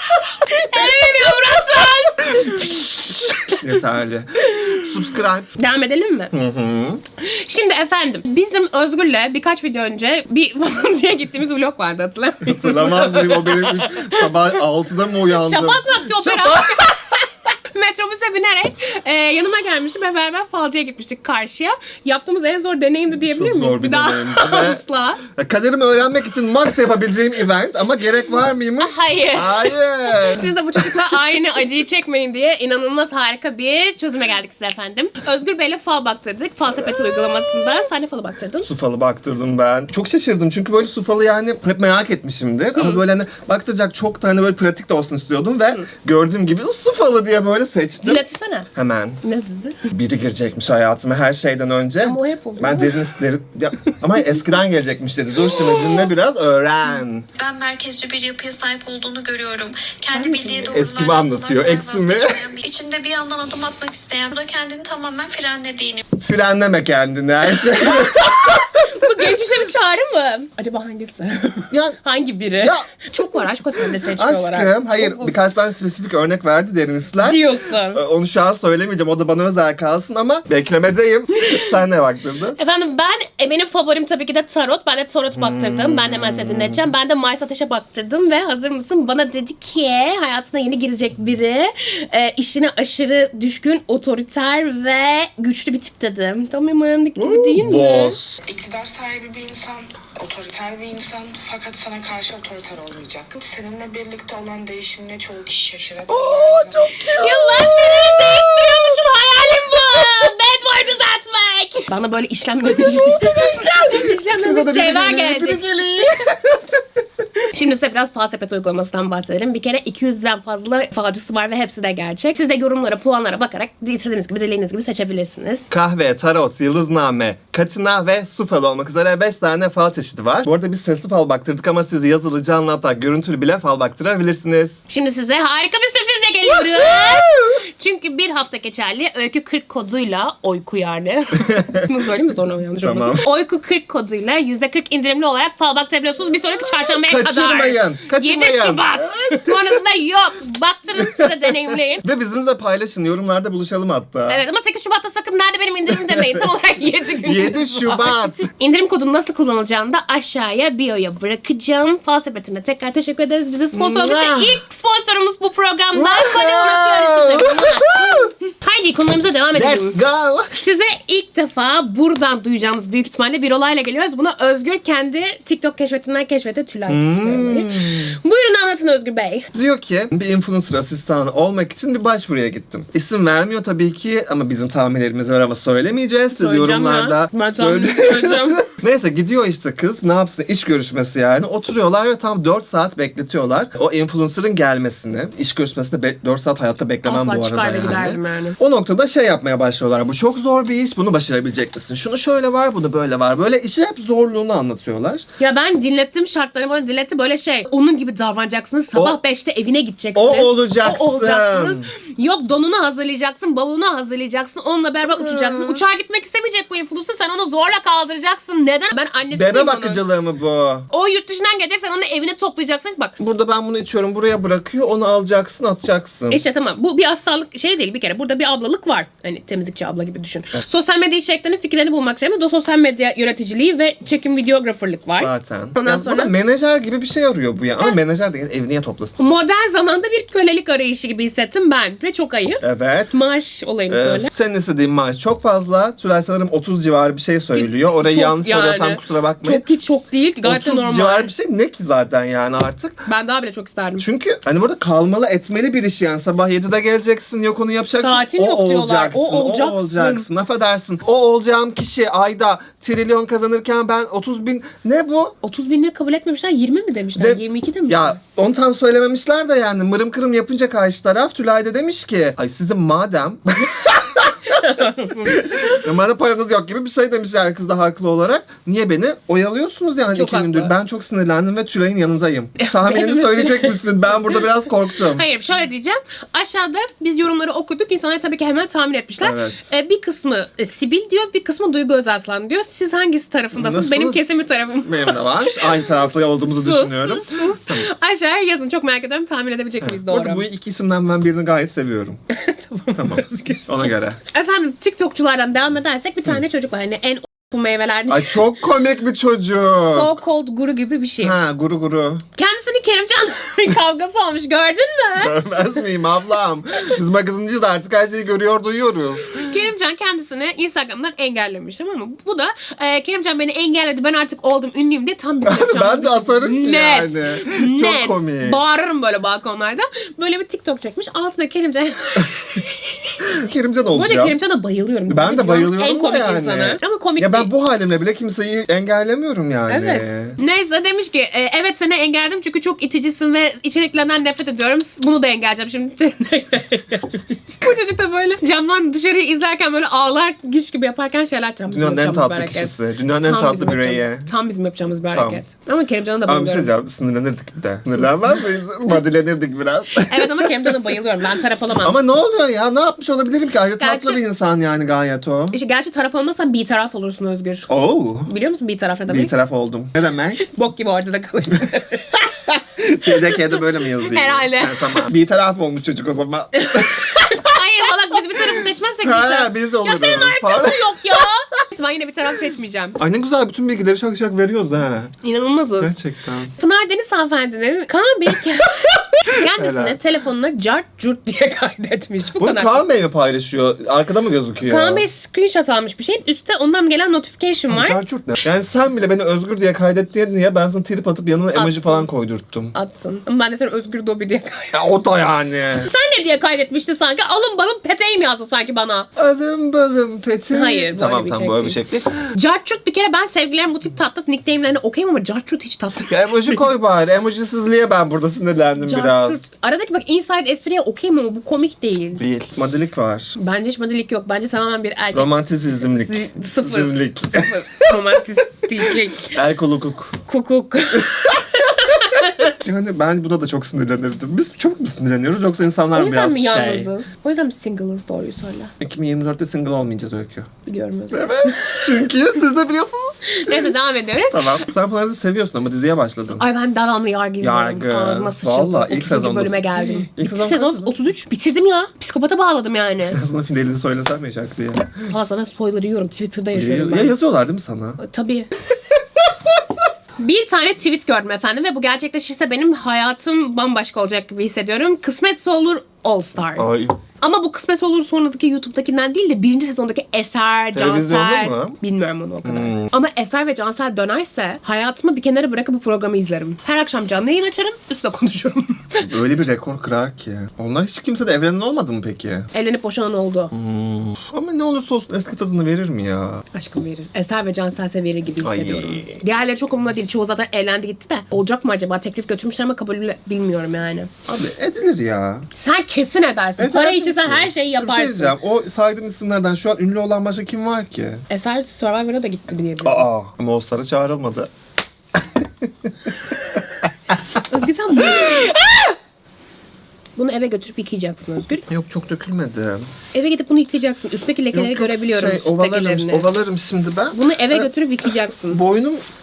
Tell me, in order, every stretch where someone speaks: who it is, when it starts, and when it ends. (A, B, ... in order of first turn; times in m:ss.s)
0:00.2-0:03.6 A
0:02.4-0:05.5 B
0:05.6-0:06.3 A
0:06.3-0:07.0 B
0:07.2-0:14.3 A
0:12.4-0:16.9 B
0:15.3-0:25.2 A
0:23.1-0:31.0 B
0:28.8-0:38.7 A
0:38.6-0:49.2 B
0:42.8-0:43.0 A
0:48.0-0:48.7 A
0:49.2-0:49.8 A
0:49.9-0:57.3 B
0:52.0-0:53.1 A
0:55.5-0:56.0 A
0:57.4-1:06.1 C
1:00.0-1:00.8 A
1:00.7-1:02.4 B
1:06.2-1:08.7 B
1:08.0-1:15.4 A
1:11.7-1:12.0 B
1:12.6-1:12.9 B
1:14.0-1:22.6 B
1:17.2-1:18.0 A
1:22.6-1:38.2 A
1:25.3-1:26.9 B
1:37.2-1:38.4 B
1:38.5-1:46.9 D
1:46.1-1:49.0 B
1:47.2-1:55.6 A
1:52.8-1:56.8 B
1:57.5-2:05.7 A
2:05.7-2:14.8 B
2:14.9-2:32.0 A
2:16.6-2:17.6 B
2:21.4-2:21.9 B
2:22.8-2:23.2 B
2:27.0-2:29.8 B
2:31.0-2:34.4 B
2:34.3-2:50.0 A
2:35.9-2:36.5 B
2:37.2-2:38.5 B
2:43.7-2:44.6 B
2:45.9-2:48.3 B
2:49.5-2:50.5 B
2:50.5-2:59.5 A
2:56.9-2:58.2 B
2:59.5-3:25.3 B
3:06.3-3:08.7 A
3:17.0-3:18.6 A
3:25.4-3:40.0 A
3:30.2-3:31.9 B
3:35.1-3:35.8 B
3:39.3-3:40.9 B
3:40.9-3:43.2 A
3:43.2-3:46.4 B
3:46.3-3:56.3 A
3:55.1-3:59.2 B
3:59.2-4:04.3 A
4:02.6-4:03.1 B
4:03.9-4:09.6 B
4:07.5-4:11.3 A
4:10.4-4:13.0 B
4:13.1-4:14.0 A
4:14.0-4:25.4 B
4:18.0-4:20.3 A
4:25.4-4:28.2 A
4:27.2-4:34.6 B
4:34.5-4:35.5 A
4:35.3-4:45.2 B
4:40.1-4:40.7 A
4:42.6-4:44.4 A
4:45.1-4:55.9 A
4:49.2-4:49.7 B
4:53.6-4:54.2 B
4:54.8-4:57.9 B
4:56.4-5:00.4 A
4:59.8-5:02.2 B
5:02.3-5:08.4 A
5:03.0-5:04.2 B
5:08.1-5:10.2 B
5:09.8-5:11.4 A
5:11.2-5:12.2 B
5:12.4-5:15.4 A
5:15.2-5:19.6 B
5:19.3-5:32.9 A
5:25.4-5:28.6 B
5:33.2-5:34.4 B
5:33.9-5:37.5 A
5:35.1-5:40.4 B
5:39.7-5:56.7 A
5:51.7-5:54.3 B
5:55.1-5:55.4 B
5:56.3-6:00.9 B
5:57.9-5:58.5 A
6:00.0-6:02.0 A
6:01.8-6:05.6 B
6:03.8-6:04.2 A
6:05.5-6:07.7 A
6:07.7-6:08.3 B
6:08.3-6:09.3 A
6:09.1-6:10.4 B
6:10.4-6:12.4 A
6:12.8-6:17.4 B
6:14.0-6:15.1 A
6:16.6-6:23.0 A
6:19.0-6:21.2 B
6:23.0-6:25.1 B
6:25.2-6:26.0 A
6:25.8-6:26.5 B
6:26.6-6:32.8 A
6:29.4-6:30.0 B
6:32.4-6:35.0 B
6:34.7-6:38.0 A
6:37.7-6:42.8 B
6:41.5-6:42.1 A
6:42.7-6:44.8 A
6:44.7-6:45.9 B
6:45.8-6:49.1 A
6:49.2-6:52.3 B
6:50.5-6:51.8 A
6:52.3-6:56.6 A
6:56.1-6:59.4 B
6:58.8-7:02.2 A
7:02.2-7:03.4 B
7:03.4-7:05.3 A
7:05.1-7:07.5 B
7:05.9-7:09.4 A
7:09.3-7:10.2 B
7:10.3-7:12.6 A
7:12.4-7:16.9 B
7:15.9-7:18.7 A
7:18.8-7:20.5 B
7:20.7-7:22.0 A
7:21.1-7:23.8 B
7:23.3-7:24.6 A
7:24.3-7:26.4 B
7:26.4-7:33.2 A
7:27.4-7:31.0 B
7:33.1-7:35.0 B
7:35.0-7:37.2 A
7:36.5-7:38.0 B
7:38.0-7:38.5 A
7:40.2-7:46.7 A
7:46.6-7:47.0 B
7:47.2-7:59.1 A
7:50.7-7:51.8 B
7:52.4-7:52.9 B
7:59.0-8:02.5 B
8:02.5-8:03.5 A
8:03.5-8:06.4 B
8:06.5-8:14.1 A
8:08.4-8:09.2 B
8:14.3-8:15.5 B
8:15.5-8:18.4 A
8:16.6-8:21.2 B
8:21.3-8:23.1 A
8:22.8-8:24.5 B
8:25.2-8:26.1 B
8:27.5-8:29.0 A
8:28.0-8:28.4 B
8:30.2-8:31.6 A
8:31.7-8:32.9 B
8:33.1-8:36.3 A
8:34.5-8:37.7 B
8:37.1-8:38.6 A
8:38.5-8:39.0 B